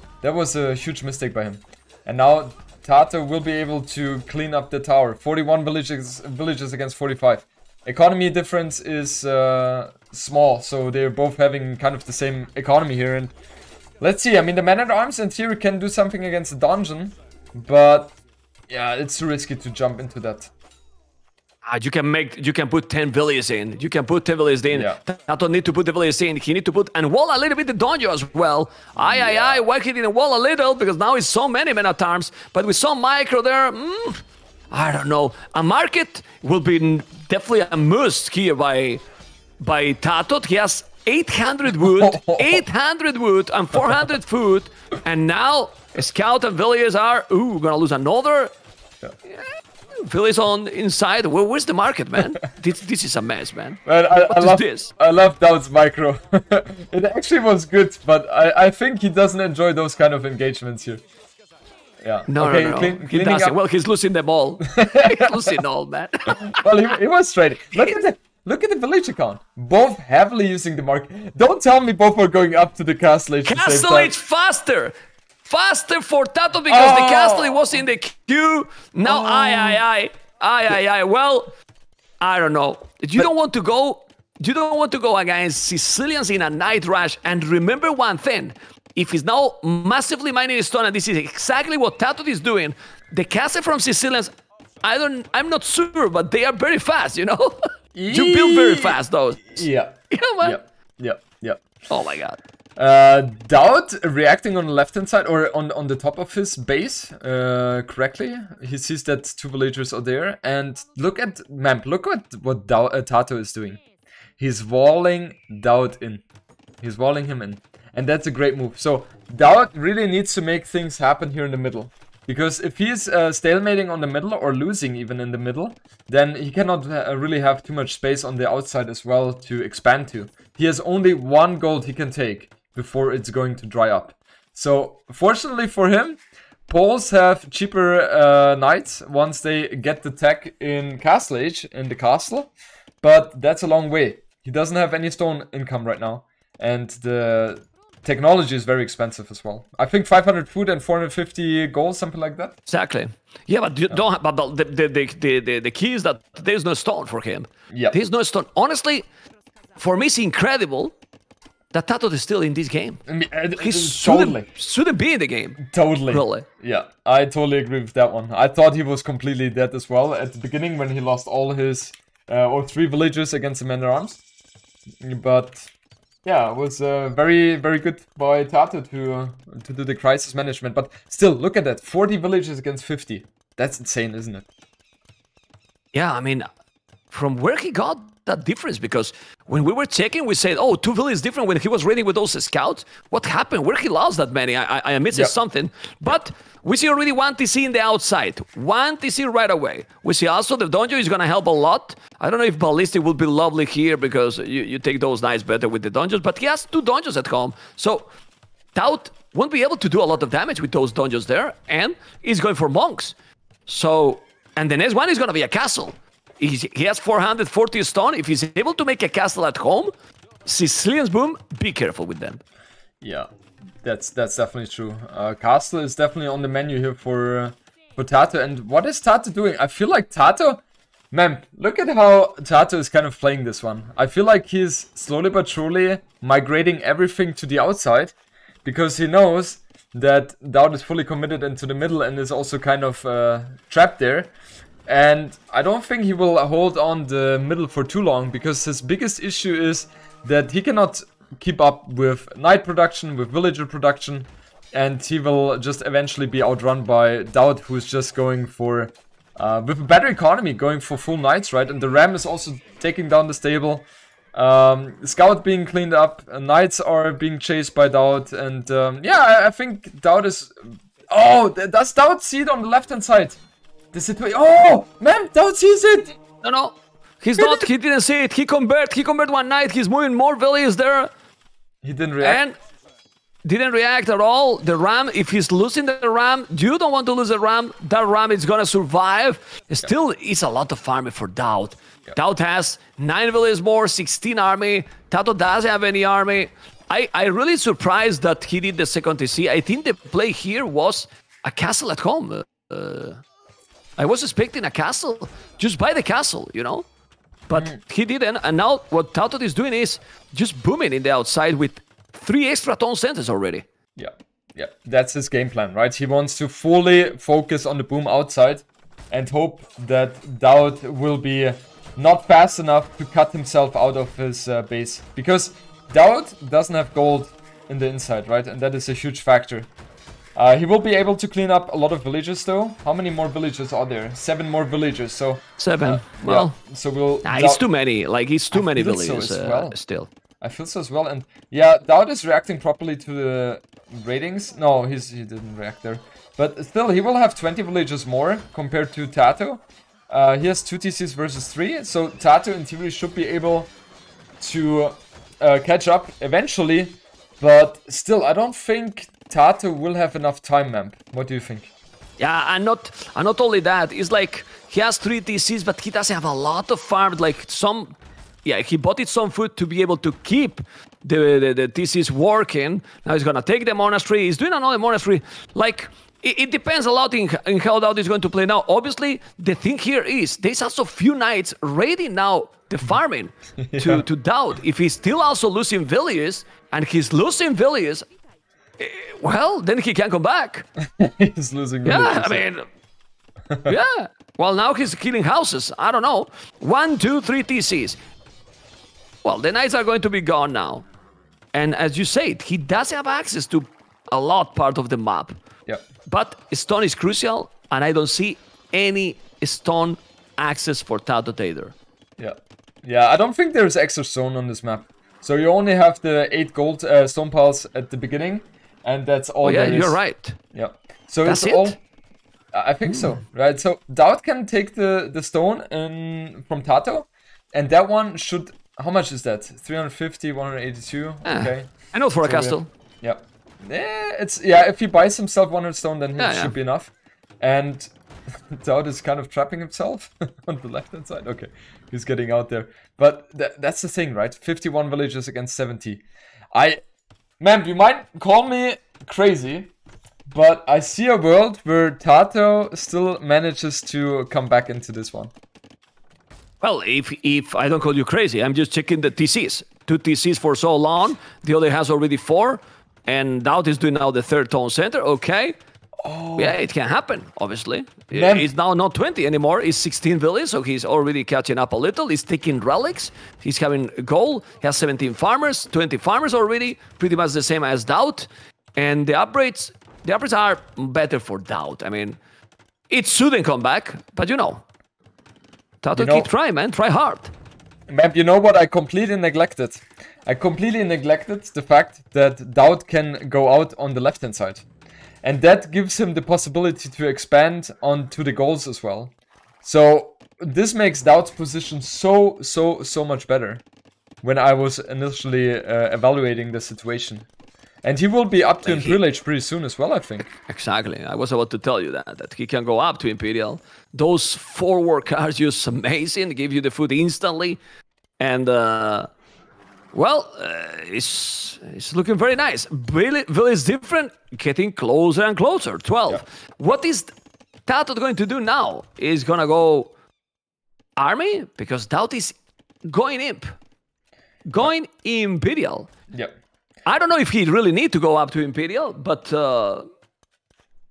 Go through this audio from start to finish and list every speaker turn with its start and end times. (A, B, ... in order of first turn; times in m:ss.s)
0:00.2-0:13.3 A
0:14.0-0:18.2 A
0:18.7-0:20.5 A
0:21.6-0:39.0 B
0:24.7-0:25.0 A
0:29.0-0:29.6 A
0:39.6-0:48.5 B
0:41.8-0:42.6 A
0:49.2-0:54.9 B
0:53.8-1:01.0 A
1:02.0-1:03.6 A
1:02.3-1:06.6 B
1:04.6-1:05.6 A
1:06.3-1:14.1 A
1:13.4-1:21.5 B
1:16.7-1:17.7 A
1:19.0-1:19.8 A
1:22.2-1:34.3 B
1:34.8-1:40.6 B
1:37.9-1:39.0 A
1:39.5-1:41.6 A
1:41.9-1:42.4 B
1:42.8-1:53.8 A
1:54.4-1:56.2 A
1:56.8-2:22.5 A
2:23.0-2:32.6 A
2:32.7-2:39.1 B
2:37.7-2:38.0 A
2:39.8-2:40.9 B
2:41.7-2:43.0 B
2:43.0-2:44.5 A
2:43.6-2:46.4 B
2:45.6-2:54.2 A
2:55.0-2:55.7 A
2:56.2-3:04.5 A
3:05.9-3:06.5 B
3:07.1-3:28.0 B
3:28.7-3:33.1 B
3:33.7-3:39.9 B
3:40.4-3:42.4 B
3:43.0-3:43.3 A
3:43.8-3:58.1 A
3:58.6-4:04.3 A
4:04.8-4:33.4 A
4:33.9-4:36.2 A
4:36.4-4:41.1 B
4:37.4-4:37.7 A
4:41.8-4:42.4 A
4:42.2-4:42.6 B
4:43.4-5:03.2 B
5:04.0-5:06.8 B
5:07.5-5:13.6 B
5:14.0-5:29.7 A
5:30.4-5:37.6 A
5:35.6-5:36.6 B
5:37.2-5:40.1 B
5:38.5-5:39.8 A
5:40.4-5:53.7 A
5:54.4-6:01.7 A
6:02.2-6:07.9 B
6:08.4-6:28.1 B
6:23.6-6:24.0 A
6:28.8-6:30.7 B
6:30.8-6:32.4 A
6:31.8-6:32.6 B
6:33.5-6:33.7 A
6:33.6-6:38.0 B
6:39.2-6:40.8 B
6:41.5-6:45.4 B
6:46.0-6:51.7 B
6:52.2-7:00.0 A
6:59.4-7:00.4 B
7:00.5-7:01.8 A
7:01.2-7:01.8 B
7:02.5-7:26.8 A
7:11.2-7:12.7 B
7:16.2-7:16.5 B
7:27.4-7:29.7 A
7:30.3-7:35.3 A
7:36.6-7:45.6 B
7:46.0-7:46.6 A
7:46.4-8:02.2 B
7:48.1-7:48.5 A
8:02.9-8:04.6 B
8:05.8-8:07.3 B
8:05.9-8:06.3 A
8:07.9-8:14.6 A
8:15.2-8:19.1 A
8:19.6-8:23.6 A
8:24.2-8:27.3 A
8:27.8-8:30.3 A
8:28.6-8:29.0 B
8:30.3-8:37.6 B
8:38.2-8:39.1 B
8:39.9-8:47.1 B
8:47.7-8:49.9 B
8:51.0-8:53.5 B
8:54.4-8:55.9 B
8:56.1-8:56.4 A
8:56.8-8:59.8 B